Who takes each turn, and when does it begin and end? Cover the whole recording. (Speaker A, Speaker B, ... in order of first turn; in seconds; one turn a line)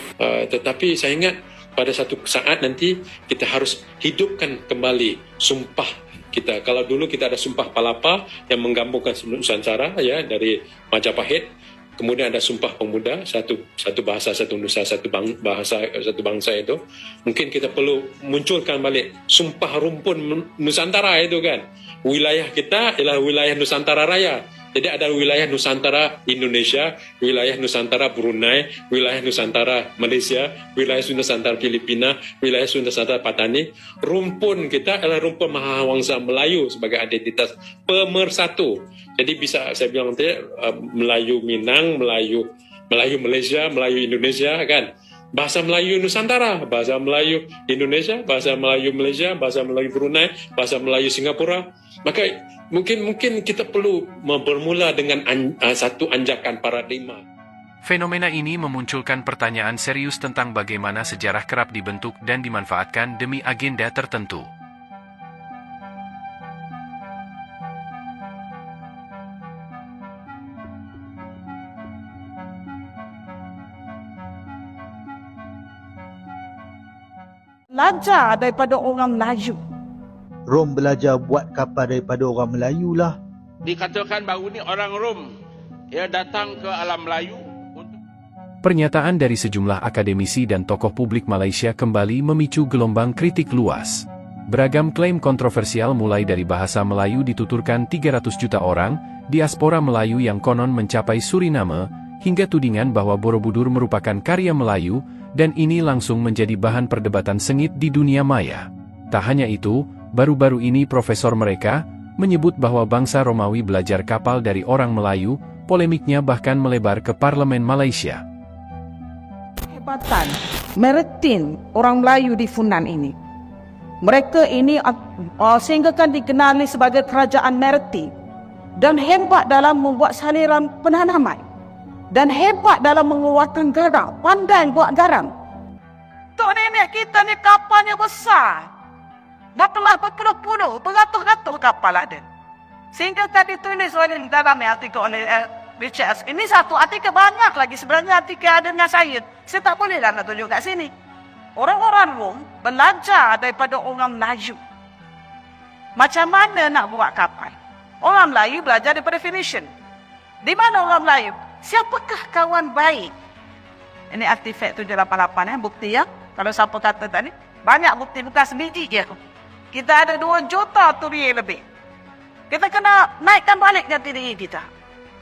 Speaker A: 0.2-57.2
Speaker B: 57.8-64.5
Speaker C: 77.7-79.6
Speaker D: 80.5-83.2
Speaker E: 83.7-85.2
Speaker E: 85.9-88.0
Speaker B: 88.6-118.2
Speaker C: 119.7-123.1
Speaker C: 124.0-128.1
Speaker C: 128.8-131.4
Speaker C: 132.1-135.3
Speaker C: 136.4-138.7
Speaker C: 139.6-142.2
Speaker C: 142.9-150.9
Speaker C: 151.6-154.6
Speaker C: 155.9-159.7
Speaker C: 160.4-163.1
Speaker C: 164.1-169.2
Speaker C: 169.7-171.6
Speaker C: 172.5-174.7